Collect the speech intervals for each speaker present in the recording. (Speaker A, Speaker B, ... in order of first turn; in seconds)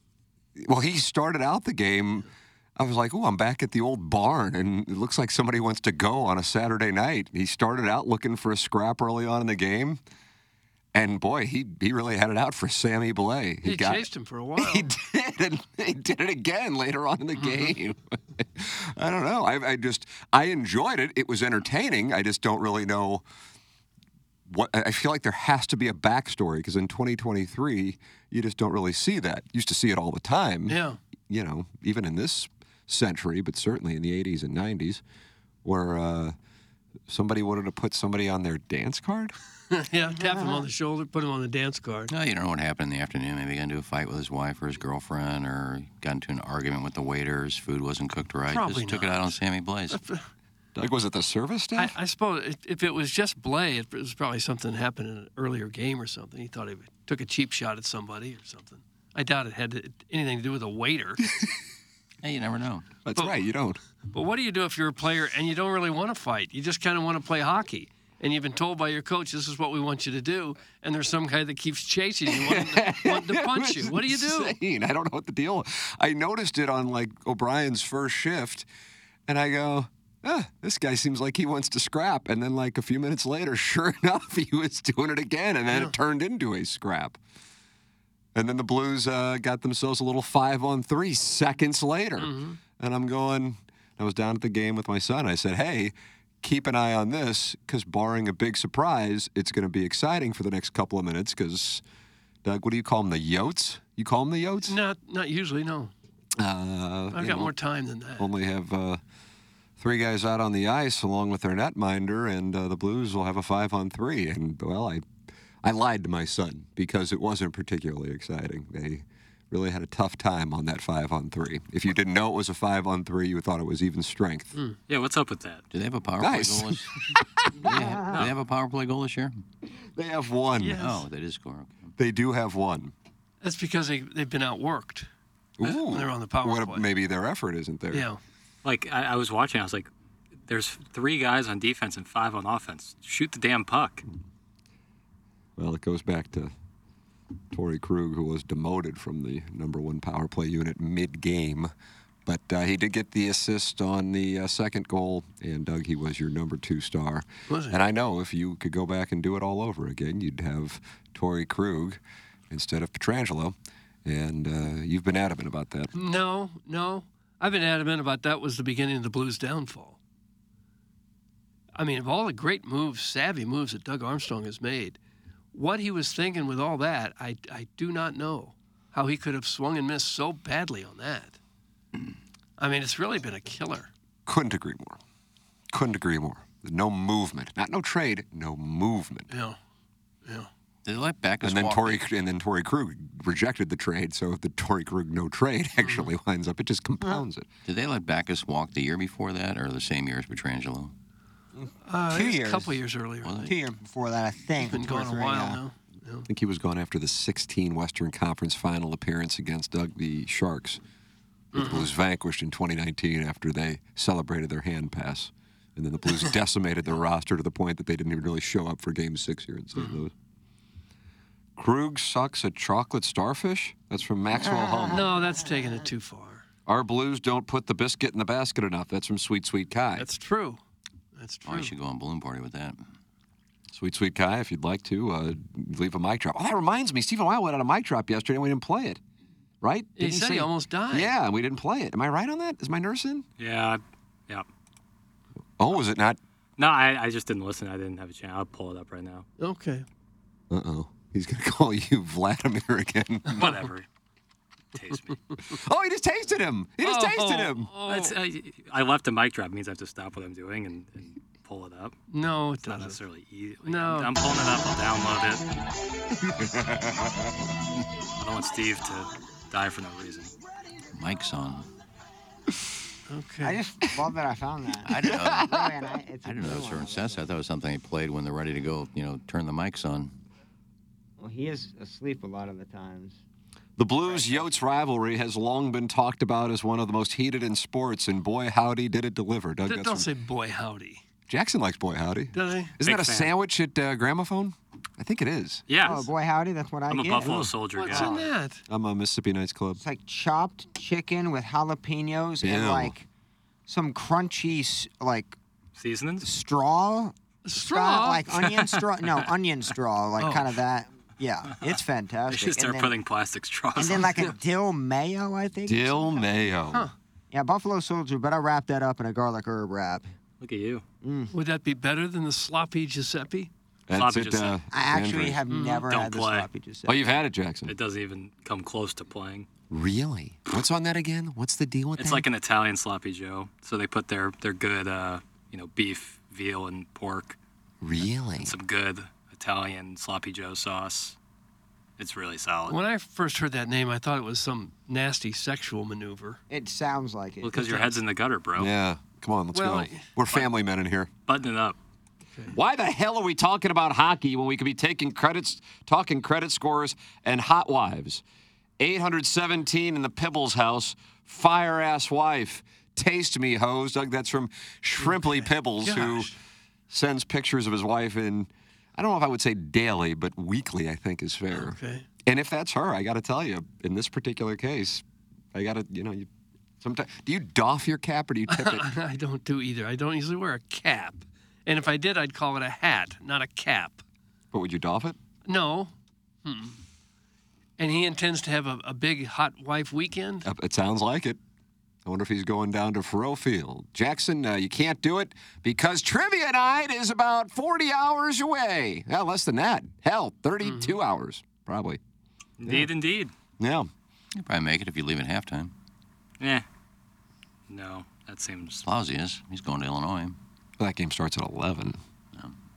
Speaker A: 0.6-10.0, 10.9-23.2, 24.5-35.0, 35.6-36.4, 37.1-39.4, 50.8-52.0, 63.0-63.8, 72.3-78.7, 79.3-87.2, 88.3-101.8, 102.4-104.8, 106.4-107.5, 108.2-109.0, 109.8-115.1, 115.6-124.6, 126.2-127.7, 130.0-130.9, 132.0-132.9, 135.6-138.1, 145.6-146.5, 147.5-151.7, 152.3-165.9, 184.3-185.0, 185.7-189.3, 191.4-197.5, 206.3-210.8, 211.5-220.1, 221.6-225.1, 226.7-230.1, 233.7-239.0, 239.6-243.2, 245.6-246.2, 250.5-253.5, 255.5-257.7, 266.2-267.3, 283.8-290.1, 291.3-295.6, 297.2-298.1, 298.7-299.8, 302.4-302.9, 315.7-316.9, 323.9-325.4, 326.9-327.8, 329.7-332.2, 337.8-338.6, 348.6-351.1, 352.5-358.2, 358.8-366.3, 366.9-376.3, 376.8-378.9, 384.5-385.2, 390.4-391.4, 392.1-402.0, 403.6-403.9, 410.8-412.0
Speaker B: 13.6-14.9, 30.7-31.0, 39.7-42.1, 48.5-49.4, 49.9-50.2, 51.8-61.2, 64.1-74.6, 92.2-92.6, 104.7-105.9, 107.1-108.3, 130.6-131.1, 133.4-135.1, 135.6-136.9, 137.9-138.2, 157.5-157.8, 165.9-170.0, 171.8-175.0, 175.5-181.4, 182.6-183.9, 189.3-189.6, 190.2-190.5, 195.8-196.1, 201.9-203.5, 204.6-206.3, 211.6-211.9, 224.9-226.4, 230.0-230.6, 231.2-231.8, 240.0-241.1, 249.4-249.8, 253.3-253.6, 256.8-258.2, 262.1-263.0, 263.6-264.1, 273.1-273.6, 289.6-291.0, 292.3-292.8, 297.7-298.6, 307.4-308.8, 310.2-310.5, 321.3-323.5, 325.5-325.9, 342.7-346.4, 349.5-350.1, 365.0-366.3, 371.5-372.1, 378.5-384.0, 385.5-385.9, 386.4-386.8, 387.8-390.5, 400.6-400.9
Speaker C: 42.1-50.0, 62.2-63.0, 125.7-126.9, 127.6-129.4, 130.8-131.9, 190.8-192.0, 197.7-200.9, 203.2-203.5, 231.4-232.8, 270.9-271.7, 274.9-275.7, 276.2-280.1, 404.4-405.7, 408.8-410.4
Speaker D: 124.9-125.6, 138.6-139.9, 140.5-144.0, 243.4-244.5, 246.6-249.2, 253.3-253.9, 254.7-255.2, 257.9-262.0, 262.6-265.4, 268.2-270.3, 292.8-293.3, 295.7-296.1, 296.9-298.3, 305.8-306.3, 312.3-314.1, 320.4-320.8, 323.9-324.6, 325.9-326.5, 327.7-329.5, 332.0-337.4, 338.0-341.2, 342.0-342.8, 347.4-348.7, 351.3-351.8, 402.6-403.3, 406.4-406.6, 407.7-408.8
Speaker E: 127.7-128.3, 201.6-202.8, 203.4-205.6, 224.4-225.1, 273.4-277.4, 281.2-283.2, 284.1-284.5, 295.8-297.3, 299.8-303.1, 303.7-305.4, 306.2-312.9, 313.8-316.3, 317.3-320.1, 321.0-321.3, 324.7-327.2, 346.5-348.0